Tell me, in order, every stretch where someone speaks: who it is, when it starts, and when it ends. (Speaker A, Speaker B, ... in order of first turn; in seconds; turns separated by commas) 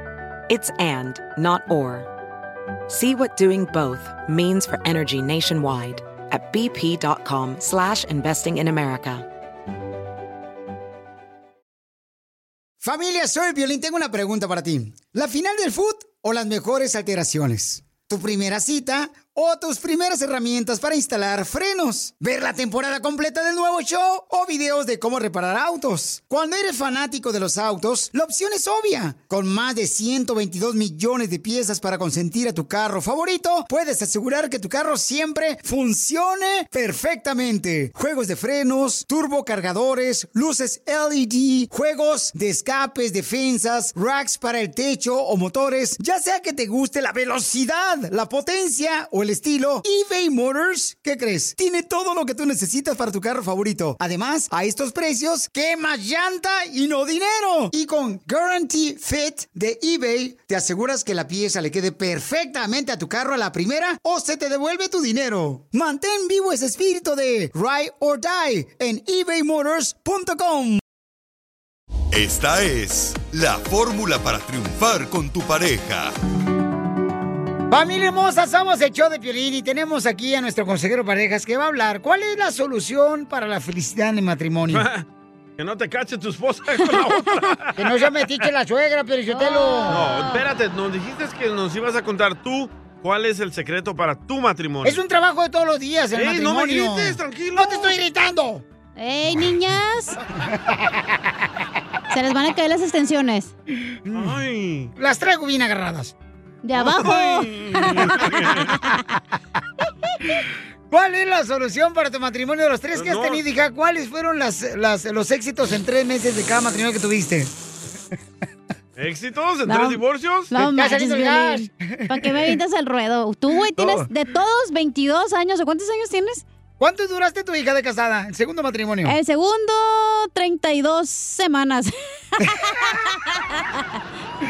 Speaker A: 0.5-2.1, Speaker A: 2.9-9.2, Speaker B: 12.8-70.8, Speaker C: 72.1-76.1, Speaker B: 77.7-84.8, Speaker D: 84.7-85.0, Speaker D: 85.6-87.8, Speaker B: 87.8-90.0, Speaker E: 89.3-90.4, Speaker D: 89.9-95.0, Speaker B: 94.8-98.6, Speaker D: 96.1-97.9, Speaker E: 99.0-100.2, Speaker B: 100.5-101.0, Speaker E: 102.1-103.5, Speaker B: 104.0-104.4, Speaker D: 104.1-104.9, Speaker B: 105.0-106.1, Speaker E: 106.6-109.0, Speaker D: 106.8-108.8, Speaker B: 110.9-117.5, Speaker D: 112.9-113.4, Speaker D: 119.0-120.5, Speaker E: 119.7-126.4, Speaker B: 120.5-122.5, Speaker B: 123.8-124.0, Speaker B: 126.8-129.1, Speaker E: 129.1-133.8